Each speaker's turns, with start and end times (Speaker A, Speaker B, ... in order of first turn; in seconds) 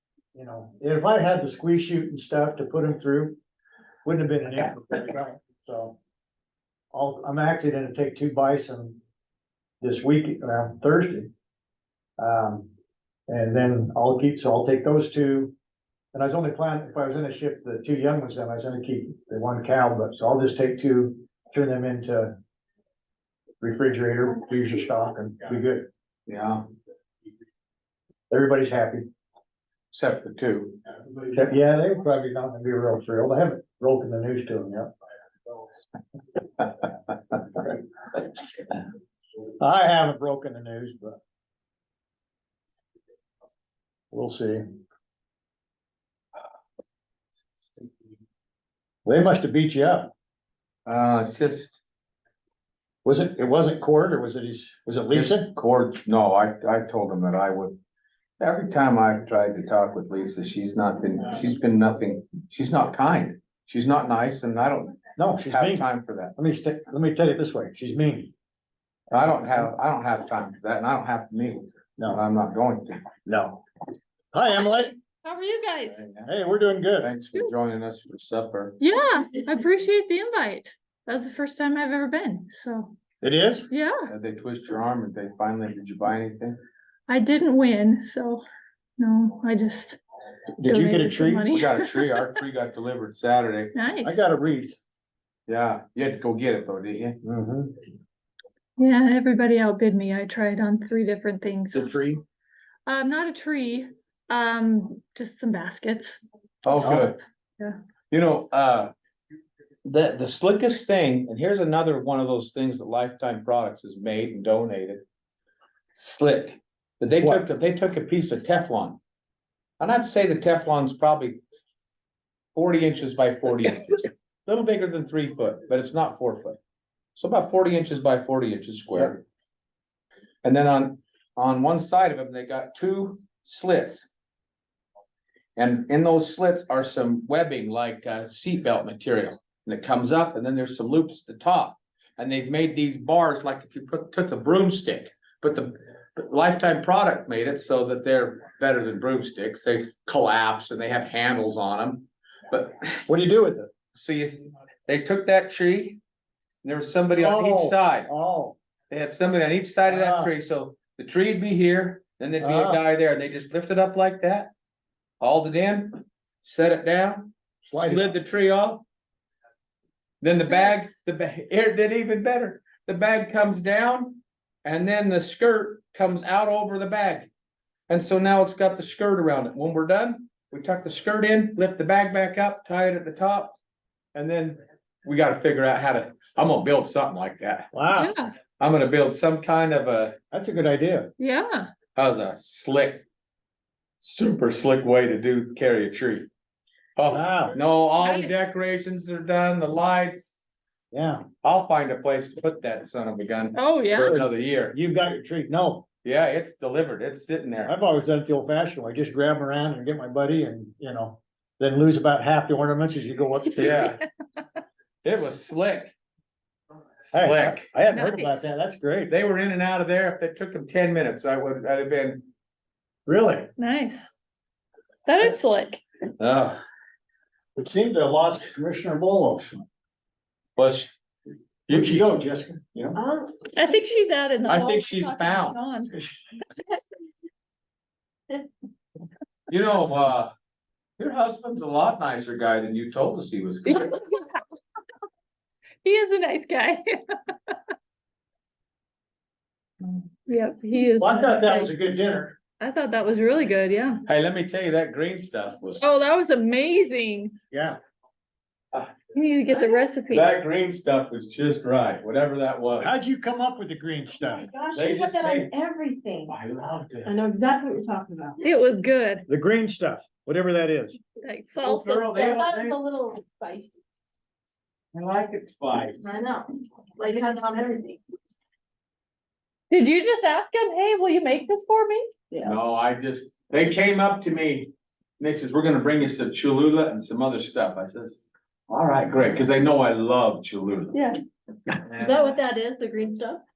Speaker A: 0.3-3.4, 4.0-6.0, 6.9-9.0, 9.8-11.3, 12.2-12.7, 13.3-15.5, 16.1-22.3, 23.6-25.9, 28.3-29.1, 31.3-34.9, 39.6-41.2, 44.1-44.6, 49.0-50.1, 53.0-55.5, 65.2-68.3, 69.2-69.6, 73.2-73.6, 74.3-75.0, 76.2-77.1, 83.2-83.7, 90.6-91.5, 94.0-94.8, 97.2-97.7, 101.7-102.2, 106.8-107.1, 117.1-117.4, 153.1-153.7, 157.2-158.6, 159.9-160.3, 162.4-162.8, 167.6-168.1, 187.7-188.1, 190.3-191.1, 197.1-197.5, 200.9-201.3, 204.7-205.8, 207.7-213.9, 217.1-219.1, 223.1-223.5, 227.6-229.6, 231.7-233.0, 251.0-252.4, 257.5-257.8, 262.8-264.5, 269.3-271.0
Speaker B: 26.3-26.6, 29.9-30.8, 50.9-51.8, 55.1-57.8, 58.4-66.3, 69.1-73.0, 75.8-76.3, 77.0-78.8, 84.1-86.6, 91.5-93.7, 95.5-97.2, 106.6-107.2, 108.1-108.9, 109.8-115.0, 115.9-119.0, 119.8-121.4, 122.5-126.6, 127.2-129.2, 130.4-134.1, 135.6-153.0, 153.9-156.0, 156.6-158.1, 158.9-164.5, 165.2-167.3, 167.8-168.8, 170.2-177.3, 177.9-183.6, 184.1-187.7, 188.6-190.1, 191.9-193.0, 194.0-196.3, 197.0-200.3, 201.4-204.8, 206.0-207.7, 213.6-214.0, 215.0-215.9, 217.0-217.7, 219.1-222.3, 226.2-226.6, 230.6-230.9, 231.7-232.1, 234.5-235.6, 239.5-240.3, 241.0-243.9, 254.1-255.9, 260.1-262.9, 264.7-265.5, 266.3-267.2, 271.6-272.8, 274.9-276.0, 282.4-291.1, 291.7-292.4
Speaker C: 74.7-76.0, 78.8-83.0, 83.7-84.1, 87.1-88.4, 89.0-90.0, 90.6-92.2, 93.7-94.2, 98.8-101.9, 102.8-106.2, 106.8-107.8, 187.9-188.4, 191.2-191.7, 198.0-198.5, 203.5-204.2, 217.9-218.5, 223.6-224.1, 225.1-225.8, 233.5-235.9, 243.7-244.4, 245.8-247.6, 249.8-251.7, 252.6-254.0, 255.8-257.3, 259.1-260.2, 268.4-269.2, 271.2-272.1, 279.7-282.1
Speaker D: 232.9-233.5, 264.4-266.3, 267.1-268.5, 271.7-273.7, 276.0-278.0, 292.0-293.4